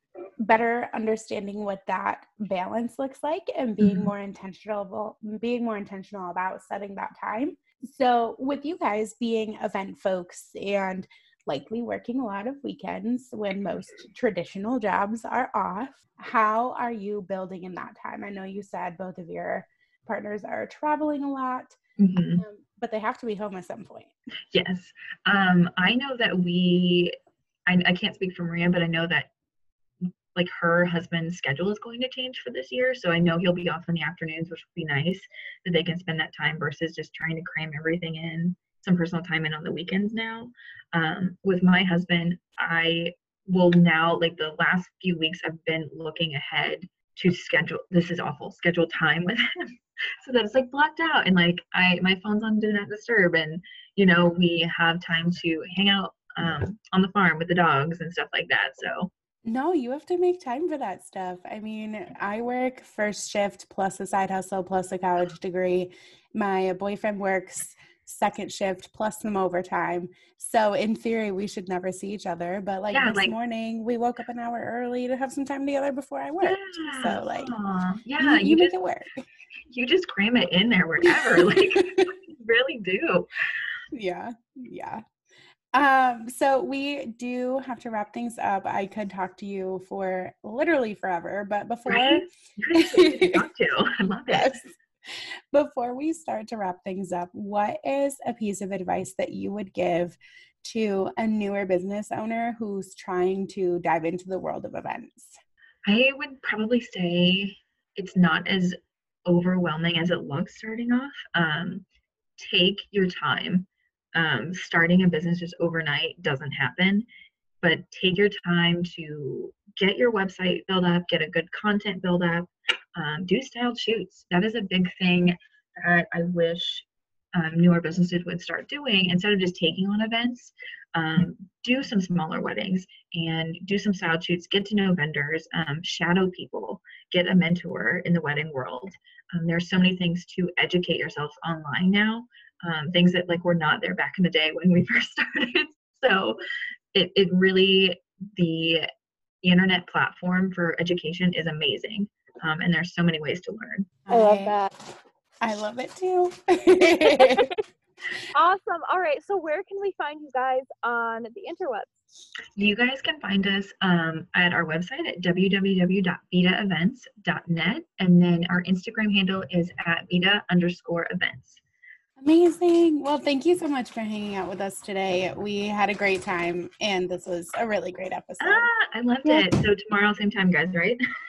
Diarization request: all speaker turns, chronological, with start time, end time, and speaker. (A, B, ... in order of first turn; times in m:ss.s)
0:00.4-0:21.8 A
0:03.8-0:04.1 B
0:22.0-0:22.4 B
0:22.4-0:24.1 A
0:24.5-0:27.2 B
0:27.7-0:29.3 B
0:30.4-0:49.4 B
0:50.2-0:59.1 B
0:59.5-1:17.6 A
1:12.9-1:13.4 B
1:16.4-1:18.8 B
1:18.2-1:19.3 A
1:19.7-1:23.3 B
1:21.1-1:22.0 A
1:23.9-1:25.0 A
1:25.7-1:33.5 A
1:31.9-1:34.5 B
1:34.3-1:34.7 A
1:35.5-1:45.4 A
1:45.9-1:48.8 B
1:49.3-1:51.8 B
1:52.4-1:57.1 B
1:57.6-2:26.4 B
2:26.9-2:28.9 B
2:29.4-2:33.9 B
2:34.1-2:34.6 A
2:34.1-2:34.7 C
2:35.4-2:37.5 A
2:37.1-2:37.5 C
2:38.3-2:41.9 C
2:42.6-2:51.6 B
2:52.2-2:58.7 A
2:58.4-3:01.0 B